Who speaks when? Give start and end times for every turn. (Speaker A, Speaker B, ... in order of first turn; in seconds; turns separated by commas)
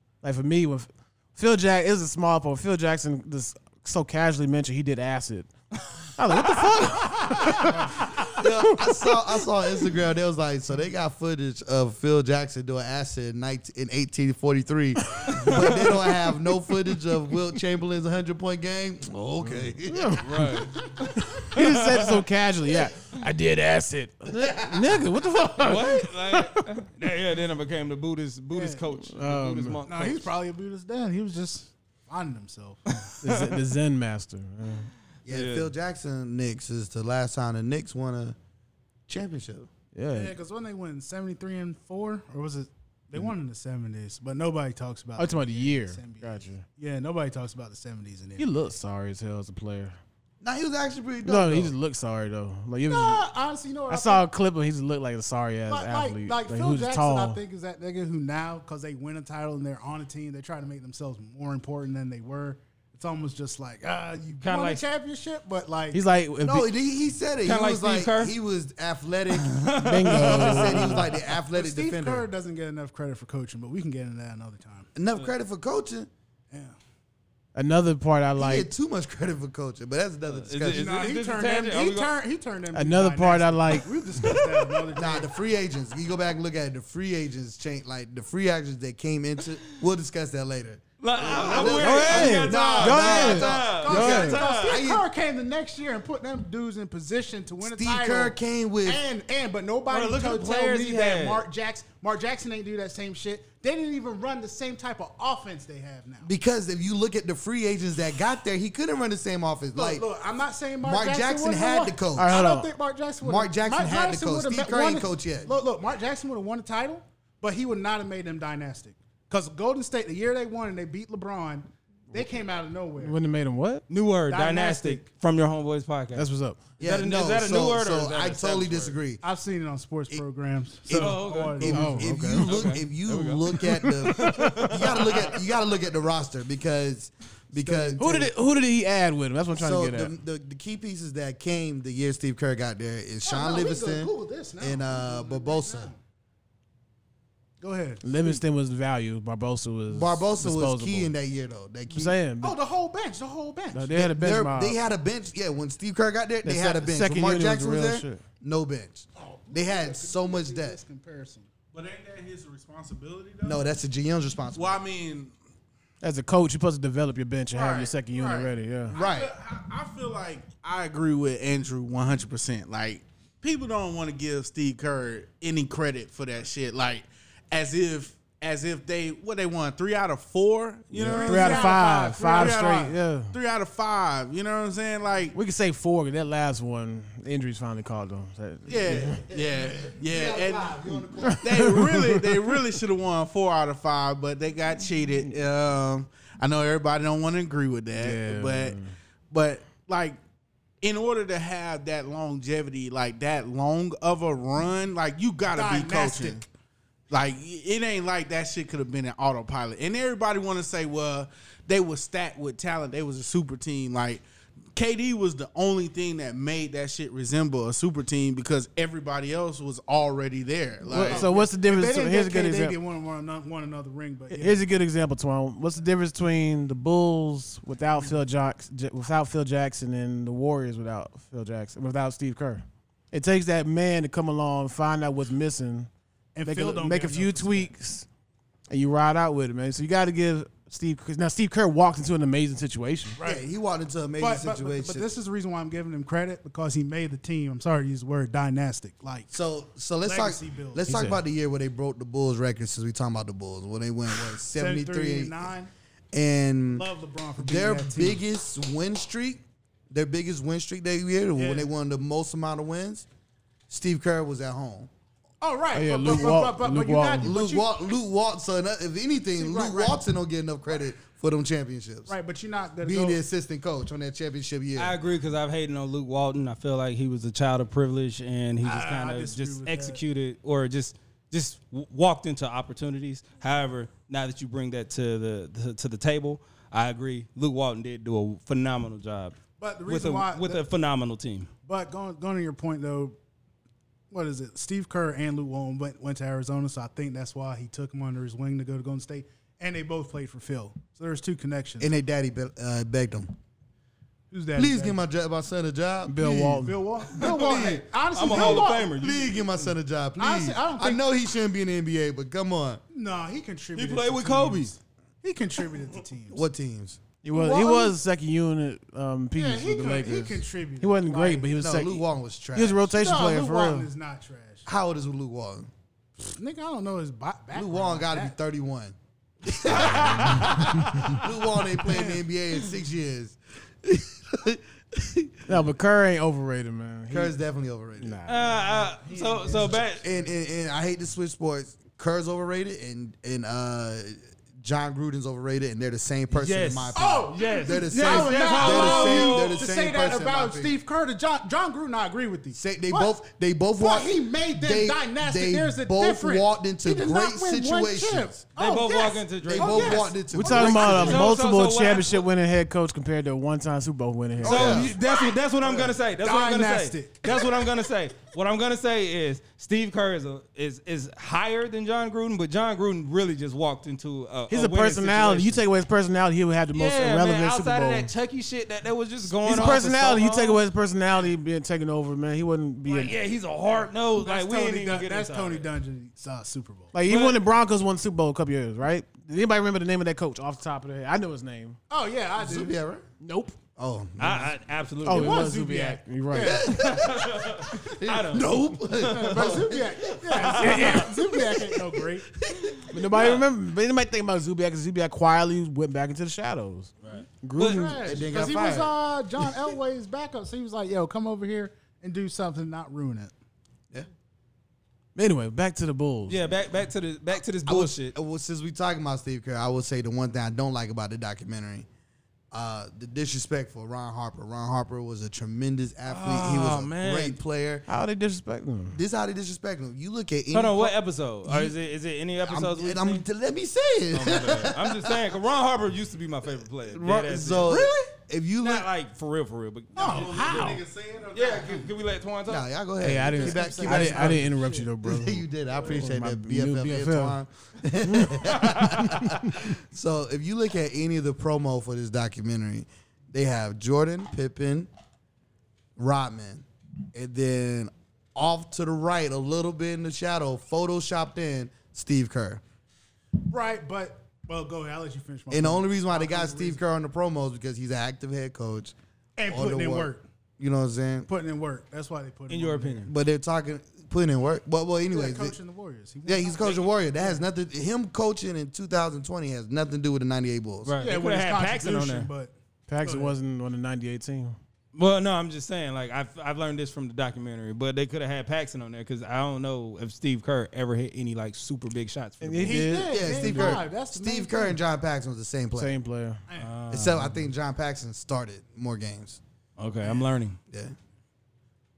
Speaker A: 0.2-5.5, Speaker A: 6.2-9.2, Speaker B: 7.3-7.7, Speaker C: 8.2-20.5, Speaker A: 19.4-20.6, Speaker D: 20.2-22.2, Speaker A: 21.2-26.6, Speaker C: 24.4-25.0, Speaker D: 25.6-30.3, Speaker B: 28.5-28.8, Speaker A: 29.1-29.8, Speaker B: 29.9-33.1, Speaker D: 33.0-33.6, Speaker A: 33.2-34.9, Speaker C: 35.3-38.4, Speaker D: 35.3-35.7, Speaker C: 39.1-39.7, Speaker A: 39.9-40.4, Speaker B: 40.1-48.5, Speaker A: 45.2-46.6, Speaker A: 48.4-50.0, Speaker C: 50.4-51.7, Speaker A: 51.2-53.2, Speaker B: 52.9-54.2, Speaker A: 53.9-57.4, Speaker B: 55.7-66.0, Speaker D: 64.4-64.8, Speaker A: 65.9-66.7, Speaker C: 66.4-72.3, Speaker D: 67.4-68.4, Speaker D: 69.3-71.1, Speaker A: 69.8-71.1, Speaker B: 71.5-74.9, Speaker C: 75.0-76.1, Speaker B: 76.5-76.8, Speaker A: 77.5-78.7, Speaker C: 78.4-80.9, Speaker D: 80.3-82.1, Speaker B: 80.7-85.3, Speaker A: 82.7-84.4, Speaker C: 84.9-95.0, Speaker D: 91.0-94.8, Speaker B: 91.3-106.3, Speaker A: 91.6-94.4, Speaker C: 97.6-99.0, Speaker D: 99.9-101.5, Speaker C: 106.2-110.1, Speaker B: 109.7-123.2, Speaker C: 110.8-112.4, Speaker A: 112.2-112.7, Speaker C: 113.2-115.5, Speaker A: 123.0-123.8, Speaker D: 123.9-126.3, Speaker B: 124.3-125.0, Speaker A: 126.1-126.7, Speaker D: 126.8-129.0, Speaker C: 126.8-129.2, Speaker B: 129.2-132.1, Speaker C: 130.9-138.3, Speaker D: 130.9-135.4, Speaker A: 131.7-132.7, Speaker B: 137.6-138.3, Speaker A: 138.0-140.2, Speaker C: 139.6-145.9, Speaker B: 143.2-146.0, Speaker B: 147.6-148.4, Speaker A: 148.0-151.1, Speaker C: 149.9-152.2, Speaker A: 151.9-152.6, Speaker B: 152.4-154.0, Speaker A: 153.7-154.8, Speaker C: 153.9-160.8, Speaker A: 156.4-158.2, Speaker B: 159.2-161.5, Speaker E: 161.7-163.7, Speaker C: 163.4-164.8, Speaker E: 164.5-165.3, Speaker A: 166.0-169.0, Speaker E: 167.5-185.4, Speaker C: 168.9-169.3, Speaker A: 180.9-183.4, Speaker B: 181.0-183.0, Speaker A: 185.3-189.2, Speaker E: 188.7-198.8, Speaker C: 189.0-191.7, Speaker A: 191.2-192.6, Speaker A: 198.0-198.9, Speaker E: 199.3-200.2, Speaker E: 200.8-206.4, Speaker B: 205.5-206.5, Speaker E: 207.1-214.2, Speaker E: 214.7-221.3, Speaker A: 220.9-222.8, Speaker B: 220.9-224.6, Speaker A: 224.3-235.9, Speaker B: 236.3-237.7, Speaker A: 236.5-238.1, Speaker A: 238.7-243.2, Speaker B: 243.2-243.5, Speaker C: 243.2-245.1, Speaker B: 244.2-249.3, Speaker C: 249.3-255.5, Speaker B: 250.0-250.9, Speaker A: 250.9-251.2, Speaker B: 254.5-255.7, Speaker C: 256.1-256.9, Speaker B: 256.7-258.2, Speaker C: 257.4-263.1, Speaker B: 261.4-261.7, Speaker C: 263.7-264.9, Speaker B: 265.4-267.7, Speaker A: 265.7-267.4, Speaker C: 267.2-272.1, Speaker B: 269.4-270.0, Speaker B: 272.1-273.2, Speaker C: 272.8-274.9, Speaker D: 274.8-291.5, Speaker B: 278.6-280.0, Speaker B: 289.6-290.6, Speaker B: 291.6-293.2, Speaker B: 294.1-301.9, Speaker C: 301.8-303.4, Speaker B: 304.3-305.1, Speaker C: 304.6-312.8, Speaker A: 306.1-306.8, Speaker B: 306.5-308.9, Speaker D: 307.1-309.7, Speaker B: 310.2-311.1, Speaker B: 312.9-316.4, Speaker D: 313.8-314.7, Speaker C: 316.3-317.0, Speaker A: 317.2-323.9, Speaker B: 317.3-317.9, Speaker B: 319.4-321.6, Speaker C: 321.6-322.9, Speaker B: 322.9-324.7, Speaker C: 324.7-325.7, Speaker B: 326.2-328.4, Speaker C: 327.5-335.5, Speaker A: 329.8-330.6, Speaker D: 329.8-330.4, Speaker B: 329.8-331.2, Speaker B: 331.8-332.2, Speaker A: 335.5-337.4, Speaker C: 337.1-338.2, Speaker A: 338.0-338.8, Speaker D: 338.3-340.1, Speaker B: 338.9-339.9, Speaker C: 340.0-350.7, Speaker D: 346.3-349.7, Speaker B: 346.9-353.1, Speaker C: 352.5-358.5, Speaker B: 353.8-361.2, Speaker D: 358.6-360.1, Speaker C: 359.5-361.3, Speaker A: 360.3-364.9, Speaker D: 360.8-362.2, Speaker C: 364.4-365.0, Speaker D: 364.4-375.6, Speaker B: 365.6-367.7, Speaker A: 374.5-378.1, Speaker D: 376.8-380.6, Speaker A: 379.2-383.1, Speaker D: 382.9-385.7, Speaker B: 383.7-386.9, Speaker A: 386.9-391.8, Speaker D: 387.1-387.4, Speaker B: 391.9-392.8, Speaker C: 392.4-393.1, Speaker A: 393.2-393.6, Speaker C: 393.8-394.5, Speaker D: 394.2-395.5, Speaker A: 395.1-396.8, Speaker B: 395.1-396.8, Speaker C: 396.4-402.9, Speaker D: 396.6-399.6, Speaker B: 399.0-402.3, Speaker D: 400.3-401.1, Speaker A: 402.9-408.3, Speaker D: 402.9-403.4, Speaker D: 407.0-407.9, Speaker B: 407.6-413.3, Speaker C: 408.0-408.9, Speaker A: 415.1-416.5, Speaker D: 416.3-418.1, Speaker C: 417.7-421.9, Speaker C: 422.5-427.9, Speaker D: 426.1-427.4, Speaker A: 427.9-429.0, Speaker C: 428.9-431.8, Speaker D: 430.5-433.2, Speaker C: 432.4-435.3, Speaker D: 434.1-437.9, Speaker C: 436.9-438.9, Speaker B: 437.7-438.0, Speaker D: 438.6-440.6, Speaker B: 439.9-440.8, Speaker E: 440.0-441.9, Speaker D: 441.3-442.7, Speaker C: 442.5-454.9, Speaker A: 443.0-447.4, Speaker B: 443.3-444.9, Speaker A: 448.0-449.7, Speaker C: 456.0-462.6, Speaker B: 463.4-466.8, Speaker C: 465.5-468.9, Speaker B: 469.4-470.2, Speaker C: 469.5-471.3, Speaker B: 471.3-473.1, Speaker D: 472.5-473.1, Speaker C: 473.1-475.6, Speaker B: 475.1-477.4, Speaker C: 476.3-480.9, Speaker D: 480.9-482.3, Speaker B: 481.0-483.4, Speaker A: 482.9-484.6, Speaker D: 484.9-493.0, Speaker A: 492.4-493.8, Speaker B: 492.6-494.8, Speaker C: 493.1-495.9, Speaker A: 495.7-496.4, Speaker B: 496.5-496.8, Speaker D: 496.6-497.5, Speaker C: 496.9-499.4, Speaker D: 499.8-500.6, Speaker C: 500.7-500.9